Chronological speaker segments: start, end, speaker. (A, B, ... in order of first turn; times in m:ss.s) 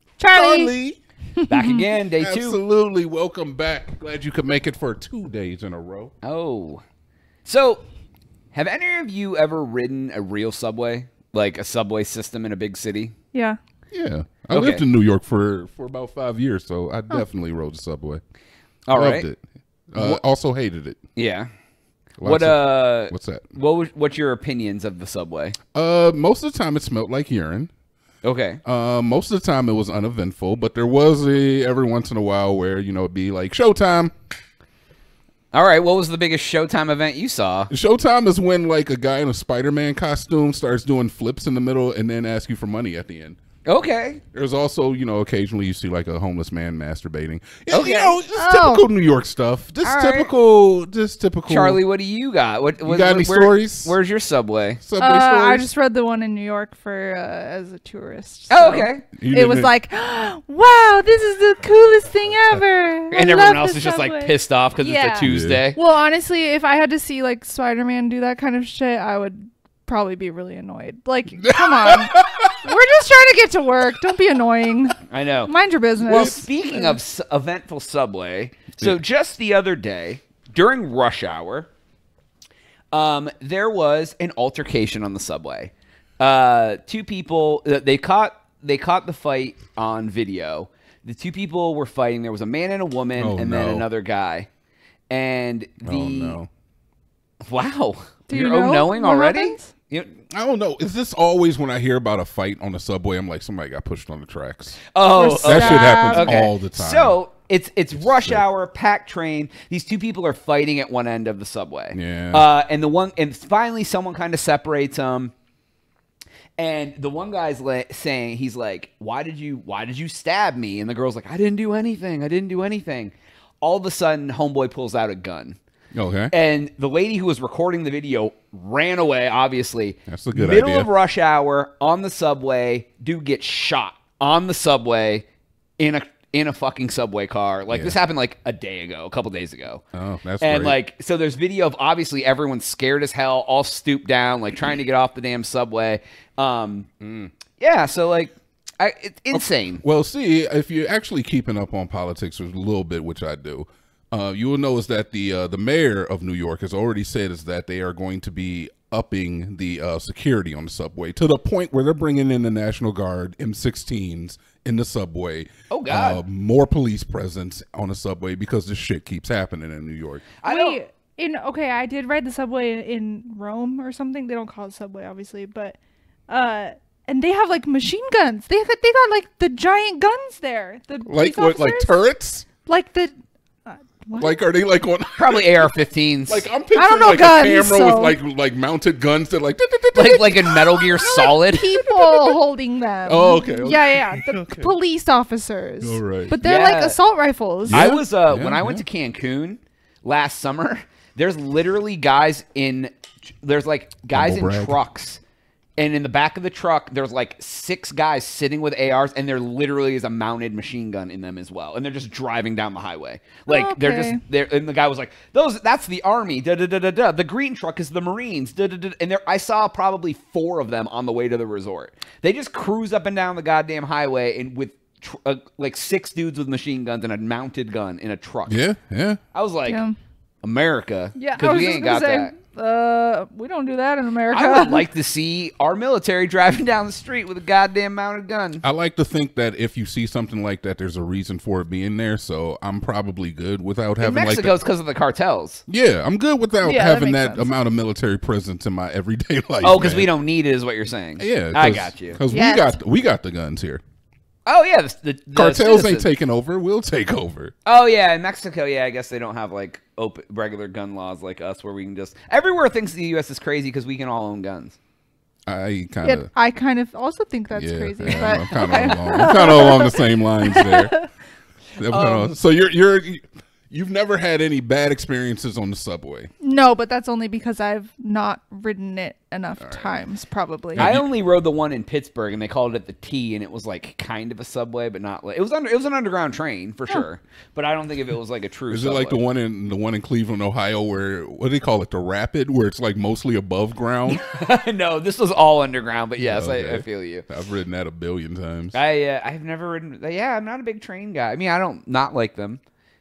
0:00.2-0:00.7 A
0:00.3-0:01.0 B
0:01.4-0:01.8 A
0:01.5-0:02.6 C
0:02.2-0:06.1 B
0:06.2-0:06.8 C
0:07.4-0:07.8 C
0:08.5-0:13.1 C
0:13.9-0:18.2 B
0:14.5-0:14.8 C
0:18.9-0:19.3 C
0:18.9-0:19.4 B
0:19.9-0:21.0 B
0:19.9-0:20.2 C
0:21.2-0:21.5 C
0:22.2-0:25.6 C
0:22.2-0:23.5 B
0:25.7-0:27.7 B
0:28.2-0:28.6 C
0:28.6-0:34.1 B
0:35.5-0:37.7 C
0:37.7-0:43.4 B
0:43.6-0:44.2 C
0:44.3-0:51.8 B
0:47.7-0:48.2 C
0:48.3-0:48.9 A
0:49.8-0:50.3 C
0:51.5-0:54.8 C
0:52.8-0:54.0 B
0:54.8-0:55.7 B
0:55.0-1:17.0 A
0:58.5-0:59.0 C
0:59.0-0:59.7 B
1:03.1-1:05.8 C
1:05.2-1:05.6 B
1:11.5-1:12.6 B
1:15.1-1:15.5 C
1:16.0-1:16.4 B
1:16.0-1:21.7 C
1:22.9-1:34.5 C
1:33.2-1:33.9 B
1:35.1-1:36.4 C
1:35.8-1:36.5 B
1:37.4-1:40.1 C
1:38.3-1:39.7 A
1:40.3-1:47.2 B
1:44.9-1:55.3 C
1:45.1-1:46.4 A
1:48.0-1:48.4 B
1:51.9-1:52.5 B
1:56.6-2:05.6 C
2:05.9-2:06.3 B
2:06.3-2:15.2 C
2:10.1-2:10.9 B
2:15.8-2:19.8 C
2:17.7-2:18.0 B
2:19.9-2:20.8 B
2:20.4-2:26.9 C
2:27.0-2:27.3 B
2:27.6-2:29.8 C
2:29.3-2:50.3 B
2:45.7-2:46.2 C
2:50.4-2:50.8 C
2:50.4-2:55.8 A
2:56.3-3:02.0 A
3:01.1-3:02.5 B
3:02.6-3:03.1 A
3:03.6-3:04.4 A
3:04.2-3:05.7 B
3:05.2-3:06.5 C
3:06.3-3:11.0 B
3:06.7-3:08.2 A
3:09.9-3:11.7 C
3:11.0-3:17.8 A
3:11.8-3:12.4 B
3:13.1-3:14.7 B
3:15.8-3:16.4 B
3:16.4-3:17.0 C
3:17.7-3:18.8 B
3:17.7-3:25.2 C
3:24.1-3:24.8 B
3:25.8-3:48.6 C
3:33.5-3:34.2 A
3:48.5-3:49.2 B
3:49.3-3:49.8 C
3:49.7-3:49.9 A
3:50.4-3:52.3 C
3:51.2-3:54.9 A
3:54.3-3:58.6 C
3:58.6-4:04.6 B
4:04.0-4:05.6 C
4:05.7-4:10.1 B
4:06.6-4:07.5 A
4:09.6-4:12.2 C
4:11.2-4:13.8 B
4:12.3-4:12.8 A
4:14.4-4:16.1 C
4:15.3-4:17.5 B
4:17.6-4:24.8 C
4:25.5-4:26.3 B
4:26.0-4:31.0 A
4:27.5-4:31.1 B
4:28.4-4:29.1 C
4:31.8-4:36.3 B
4:31.9-4:32.3 C
4:36.4-4:40.9 A
4:39.6-4:40.0 B
4:40.7-4:41.1 B
4:40.8-4:49.2 C
4:48.7-4:54.2 B
4:54.1-4:57.2 C
4:56.2-4:58.8 B
4:58.7-5:02.6 C